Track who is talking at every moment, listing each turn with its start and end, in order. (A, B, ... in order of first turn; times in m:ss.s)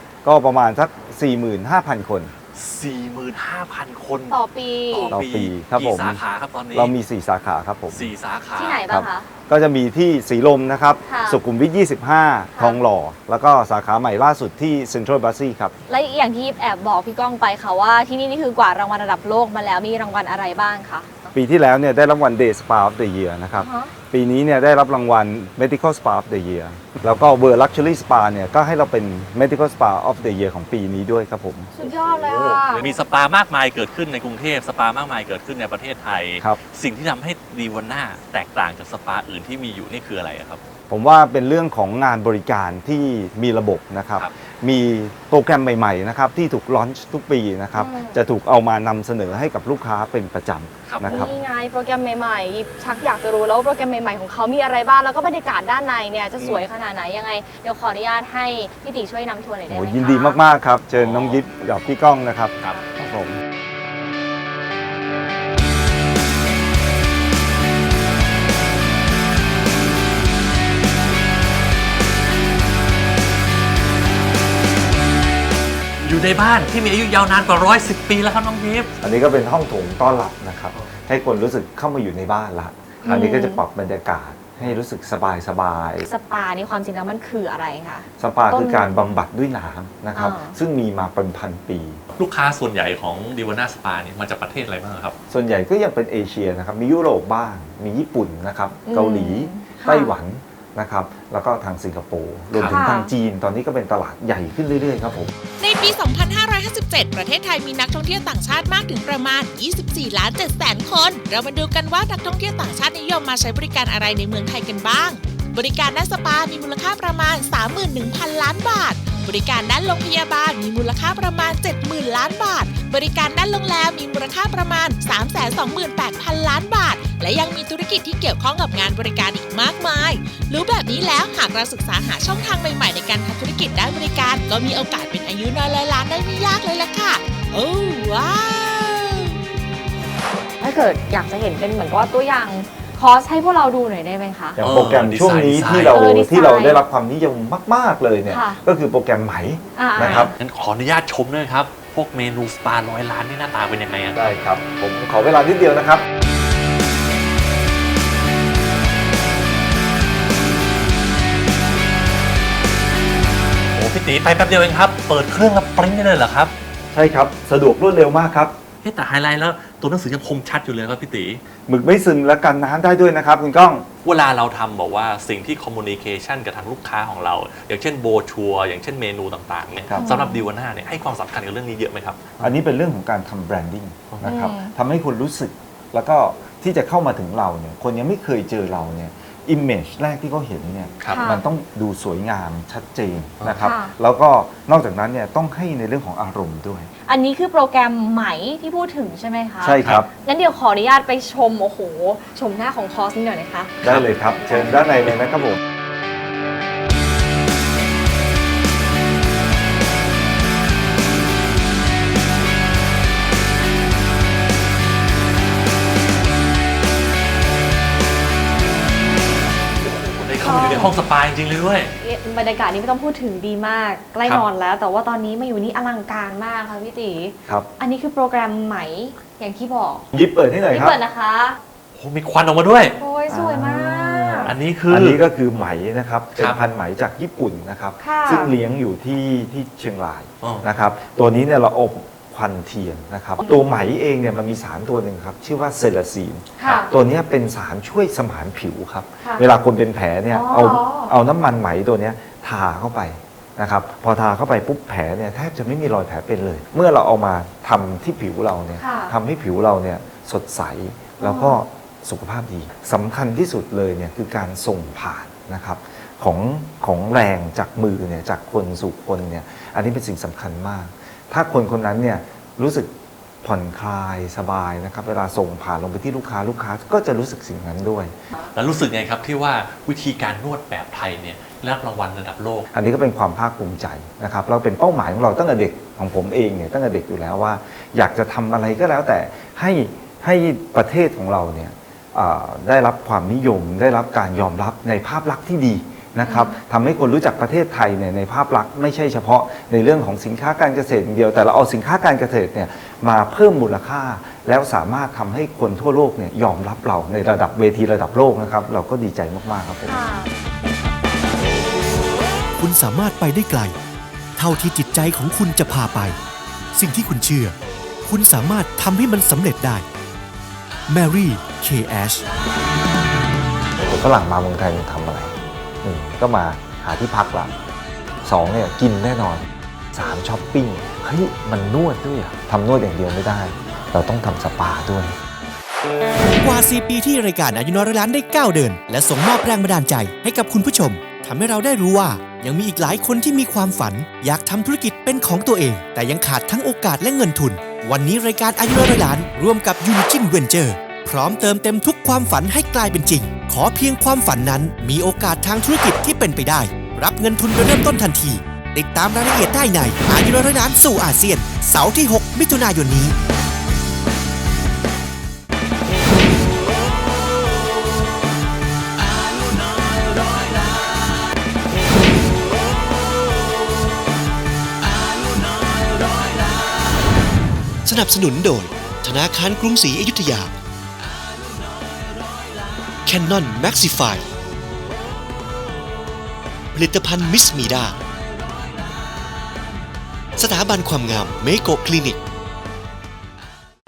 0:00.2-0:02.3 A
0:02.5-0:04.4 B
0:04.3-0:05.1 C
0:04.9-0:06.9 B
0:05.1-0:06.2 A
0:06.7-0:08.1 A
0:07.9-0:08.8 B
0:08.6-0:09.3 C
0:08.9-0:15.7 A
0:11.0-0:11.4 C
0:15.9-0:21.3 C
0:21.3-0:31.7 A
0:23.5-0:23.9 C
0:31.7-0:32.9 C
0:31.9-0:40.6 B
0:40.9-0:51.4 A
0:47.7-0:48.2 C
0:50.9-0:51.3 B
0:51.1-1:00.4 C
0:56.4-0:56.6 A
0:59.7-1:03.4 A
1:00.9-1:01.4 B
1:16.0-1:18.9 B
1:19.0-1:26.1 A
1:20.7-1:21.0 B
1:23.0-1:23.6 C
1:26.1-1:29.1 C
1:28.2-1:32.0 A
1:30.1-1:30.6 C
1:32.1-1:35.1 B
1:35.3-1:45.3 A
1:38.8-1:40.2 C
1:42.5-1:42.8 B
1:42.7-1:43.1 C
1:45.6-2:19.4 D
2:20.6-2:24.6 C
2:24.6-2:30.3 A
2:24.6-2:26.1 B
2:25.9-2:26.8 C
2:28.3-2:28.6 C
2:29.8-2:30.3 C
2:30.0-2:34.4 B
2:34.1-2:36.0 A
2:43.7-2:46.5 B
2:46.9-2:48.5 A
2:48.8-2:51.4 B
2:51.7-2:53.9 A
2:54.0-3:02.5 B
2:59.9-3:00.2 A
3:00.0-3:00.4 C
3:02.4-3:16.9 A
3:04.2-3:04.7 C
3:11.1-3:11.4 C
3:13.6-3:13.9 C
3:17.0-3:25.4 C
3:19.6-3:20.1 A
3:23.8-3:25.6 A
3:39.8-3:41.9 B
3:40.4-3:40.9 C
3:42.0-3:50.1 C
3:50.1-3:51.0 A
3:50.6-3:51.6 C
3:51.9-3:52.9 B
3:52.9-3:54.5 C
3:53.3-4:38.1 A
3:54.4-3:55.2 B
3:56.4-3:56.6 B
3:58.0-3:58.5 C
4:06.6-4:06.9 C
4:09.2-4:09.5 C
4:10.3-4:11.1 C
4:18.8-4:19.1 C
4:21.2-4:21.6 C
4:38.5-4:42.6 B
4:42.7-5:10.0 A
4:56.2-4:56.6 C
5:09.8-5:10.3 C
5:12.6-5:13.8 E
5:14.4-5:16.2 E
5:16.7-5:19.9 E
5:20.9-5:22.2 E
5:23.9-5:27.5 A
5:28.2-5:35.2 A
5:36.4-6:03.1 E
6:17.8-6:20.5 F
6:23.0-6:24.3 F
6:26.7-6:28.0 F
6:30.4-6:32.2 F